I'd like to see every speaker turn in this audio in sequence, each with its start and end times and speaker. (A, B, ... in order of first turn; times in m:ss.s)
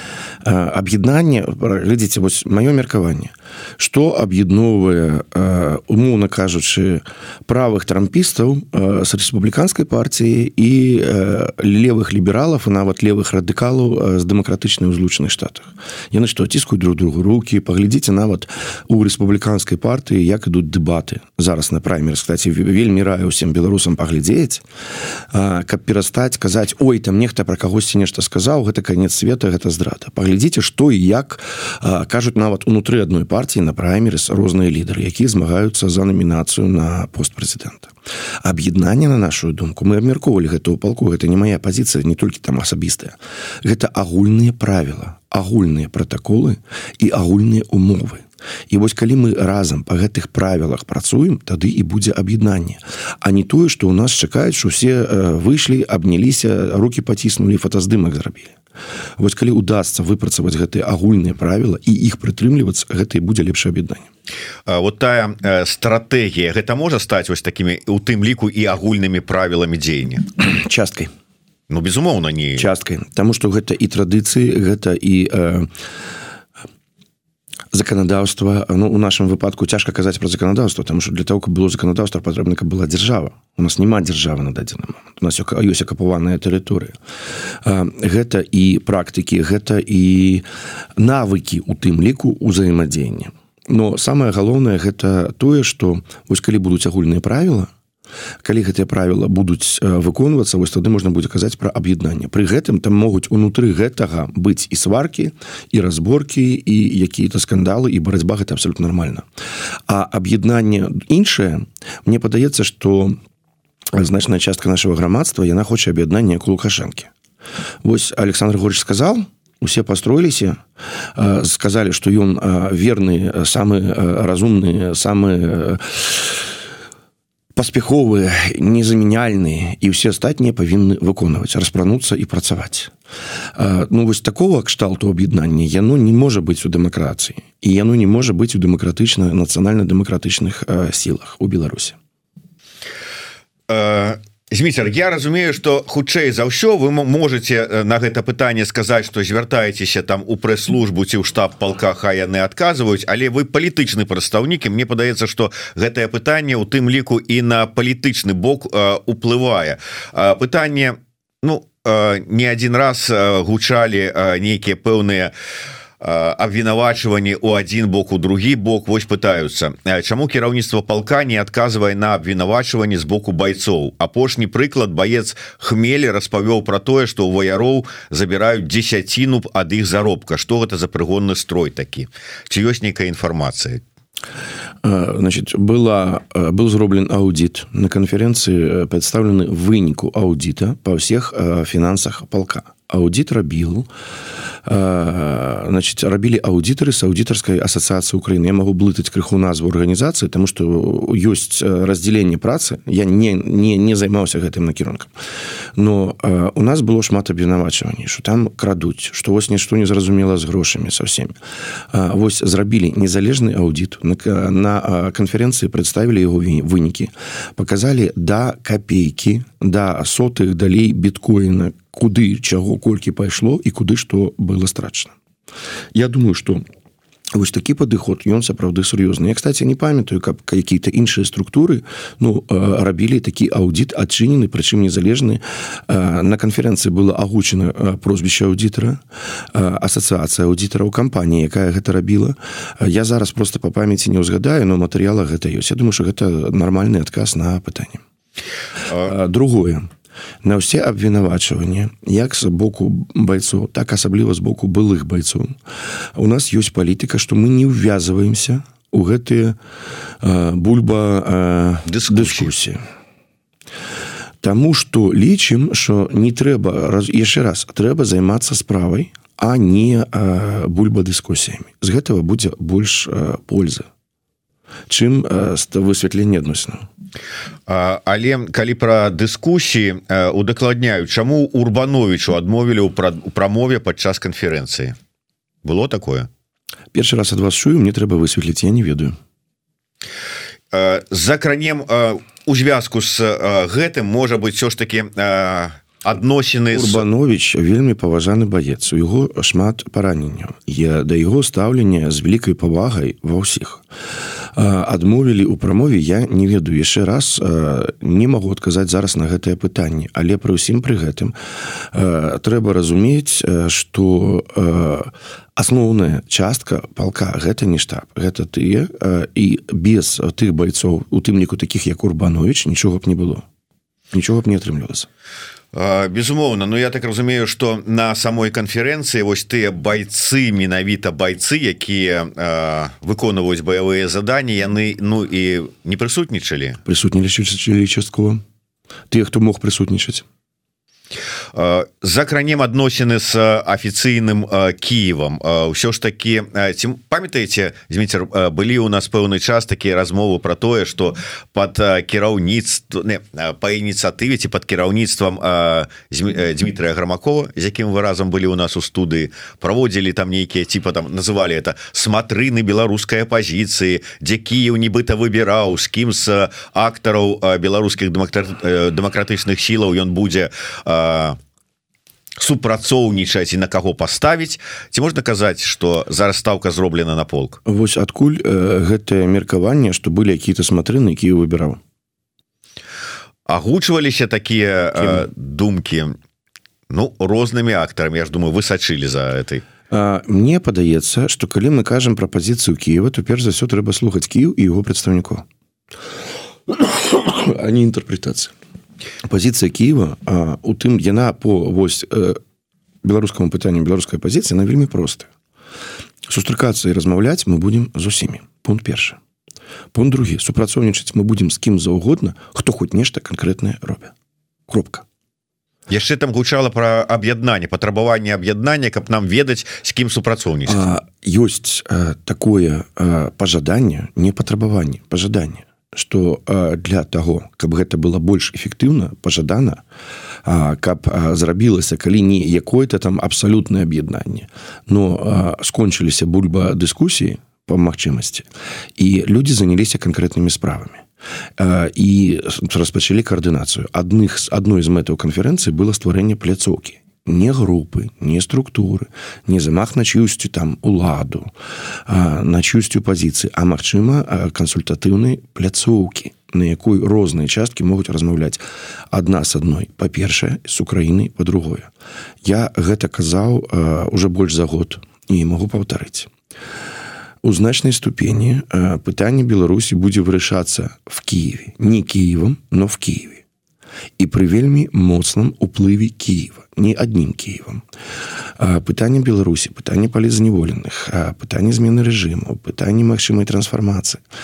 0:00.4-0:24.6 A
0:25.3-0:58.6 A
0:59.2-1:04.1 A
1:04.7-1:10.3 B
1:10.4-1:11.1 A
1:11.7-1:12.7 B
1:12.6-1:15.7 A
1:17.7-1:26.9 A
1:27.6-1:30.4 A
1:31.0-1:37.7 A
1:38.4-1:49.2 A
1:49.9-1:53.2 A
1:53.9-1:57.1 A
1:57.8-2:00.6 A
2:01.1-2:06.5 A
2:07.5-2:12.9 A
2:13.5-2:22.0 A
2:23.7-2:45.3 B
2:46.0-3:03.8 B
3:04.8-3:13.9 A
3:14.6-3:25.1 A
3:25.8-3:31.3 A
3:31.9-3:45.1 A
3:45.9-3:46.6 A
3:47.3-4:08.0 A
4:09.0-4:09.8 A
4:10.4-4:15.5 A
4:16.1-4:19.6 A
4:20.2-4:22.8 A
4:21.8-4:22.5 B
4:24.4-4:33.9 A
4:34.9-4:36.8 A
4:37.7-4:44.9 B
4:45.6-4:46.3 B
4:46.9-4:49.2 A
4:50.7-4:57.0 B
4:56.7-5:03.8 A
5:04.5-5:23.4 A
5:24.1-5:25.1 A
5:25.7-5:36.8 B
5:36.8-5:38.4 A
5:39.1-5:40.2 A
5:41.5-6:11.4 B
6:12.4-6:17.6 B
6:17.6-6:21.8 A
6:23.5-6:26.2 B
6:26.9-6:29.6 B
6:29.9-6:35.4 A
6:36.7-6:38.5 A
6:39.2-6:42.4 A
6:43.0-6:45.3 A
6:46.3-6:49.2 A
6:49.9-6:54.1 A
6:54.7-6:55.0 A
6:55.9-7:00.8 B
7:00.6-7:09.8 A
7:10.4-7:21.0 A
7:21.6-7:31.5 A
7:32.1-7:41.9 A
7:42.4-7:46.3 A
7:47.4-7:53.4 A
7:54.2-7:57.8 A
7:58.6-8:04.2 A